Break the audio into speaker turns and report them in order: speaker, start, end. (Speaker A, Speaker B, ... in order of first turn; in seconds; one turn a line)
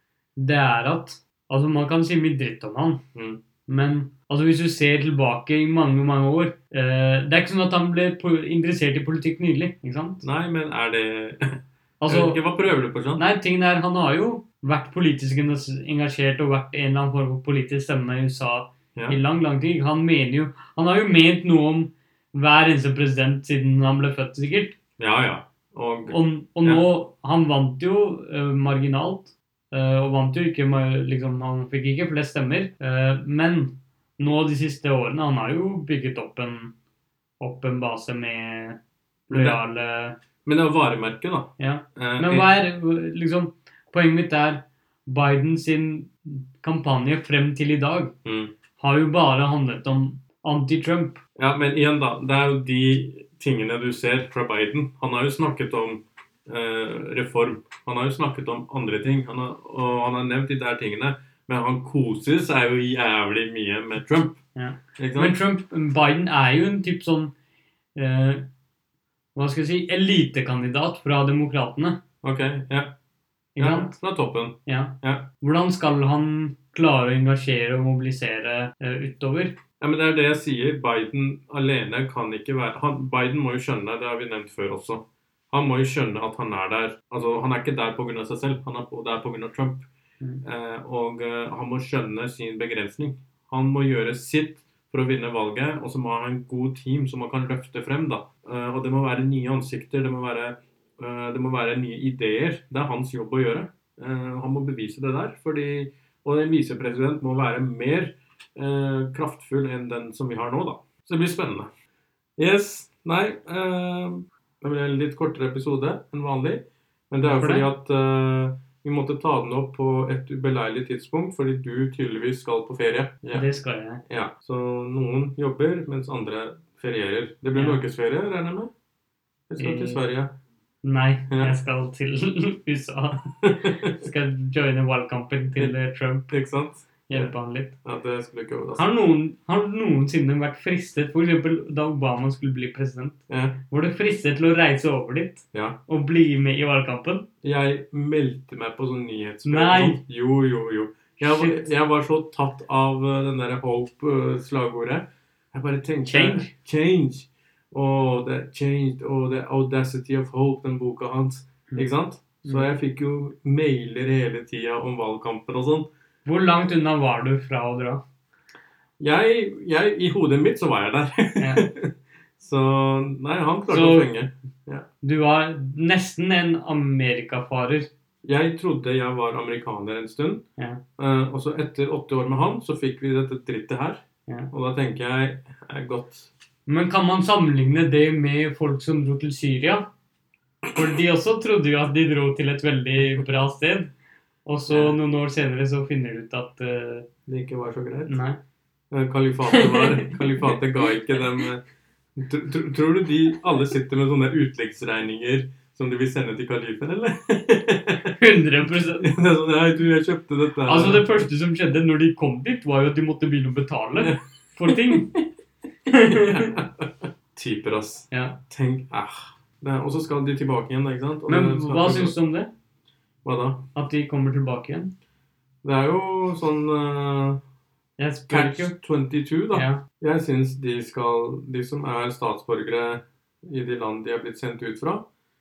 Speaker A: 0.4-3.0
Speaker B: 3.1-3.4
Speaker A: 3.7-10.2
Speaker B: 10.2-13.2
Speaker A: 12.0-12.4
Speaker A: 13.2-24.8
Speaker B: 25.0-26.9
Speaker A: 26.1-36.7
Speaker A: 37.4-40.2
Speaker B: 39.3-39.6
Speaker B: 40.5-42.5
Speaker A: 41.6-48.1
Speaker B: 48.2-48.5
Speaker A: 48.8-51.2
Speaker B: 51.4-64.4
Speaker A: 64.5-67.3
Speaker B: 65.0-65.4
Speaker A: 68.0-68.5
Speaker A: 69.3-72.0
Speaker B: 72.2-73.0
Speaker A: 73.6-74.0
Speaker B: 73.6-75.3
Speaker A: 74.7-79.6
Speaker B: 79.8-89.9
Speaker B: 90.4-111.7
Speaker B: 112.4-123.5
Speaker A: 117.2-117.7
Speaker A: 123.3-124.0
Speaker B: 124.1-128.7
Speaker A: 127.5-127.8
Speaker B: 129.5-130.3
Speaker A: 129.6-130.0
Speaker A: 130.8-136.3
Speaker B: 133.4-134.0
Speaker B: 136.3-137.3
Speaker A: 137.1-137.8
Speaker B: 137.8-138.9
Speaker A: 138.8-143.2
Speaker B: 143.3-143.6
Speaker A: 143.7-147.3
Speaker B: 145.5-145.8
Speaker B: 147.4-165.9
Speaker A: 149.4-150.0
Speaker A: 151.2-151.7
Speaker A: 156.1-156.5
Speaker A: 162.4-162.7
Speaker A: 166.2-168.0
Speaker B: 169.0-174.9
Speaker A: 171.4-171.7
Speaker A: 173.7-174.1
Speaker A: 175.0-177.9
Speaker B: 178.2-180.4
Speaker A: 180.6-180.8
Speaker B: 181.0-186.3
Speaker A: 186.7-189.9
Speaker A: 190.7-193.9
Speaker A: 194.5-197.1
Speaker B: 194.7-195.0
Speaker B: 197.3-198.2
Speaker A: 198.1-198.4
Speaker B: 198.9-201.6
Speaker A: 199.5-200.6
Speaker B: 202.2-208.2
Speaker A: 208.1-209.1
Speaker B: 209.0-211.1
Speaker A: 210.7-215.2
Speaker B: 214.0-215.2
Speaker A: 215.9-216.6
Speaker B: 216.1-222.2
Speaker A: 218.1-218.4
Speaker A: 221.3-222.5
Speaker B: 223.2-223.7
Speaker A: 223.8-224.9
Speaker B: 225.6-227.4
Speaker A: 228.0-228.7
Speaker B: 228.3-235.1
Speaker A: 229.5-229.8